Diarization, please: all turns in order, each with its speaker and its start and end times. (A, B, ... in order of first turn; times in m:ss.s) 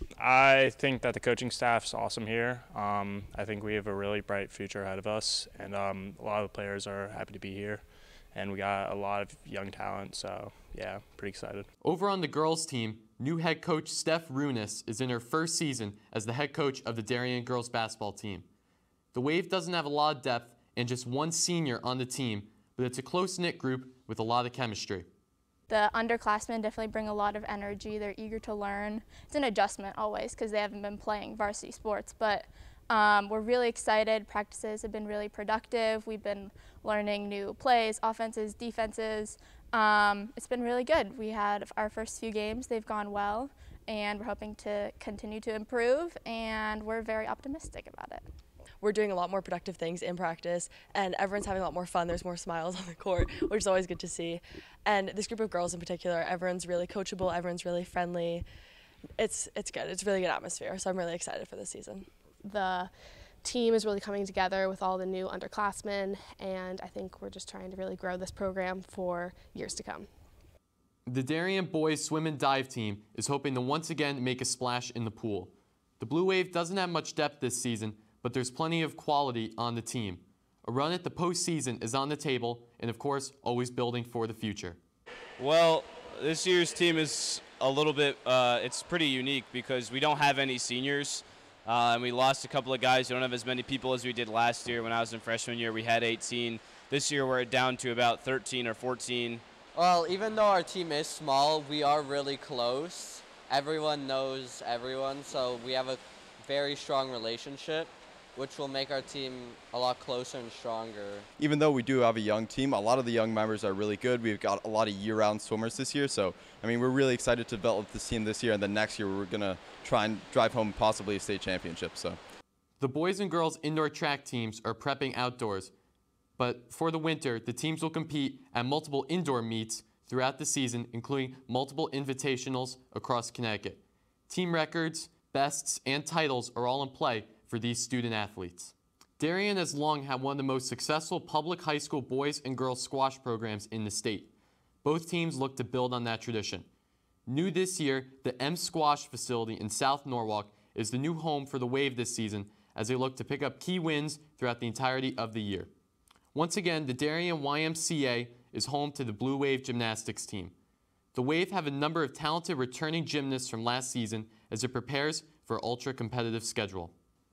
0:00.2-0:11.6 A
0:11.8-0:18.4 B
0:19.1-0:25.1 B
0:25.7-0:48.2 C
0:48.8-0:58.4 D
0:59.2-1:02.0 D
1:02.4-1:10.1 E
1:11.0-1:24.8 B
1:25.4-1:39.4 F
1:39.7-1:51.3 G
1:51.4-2:02.2 H
2:02.8-2:05.7 B
2:06.4-2:24.3 B
2:24.8-2:26.7 B
2:27.3-2:35.7 B
2:36.3-2:40.5 B
2:41.1-2:46.9 B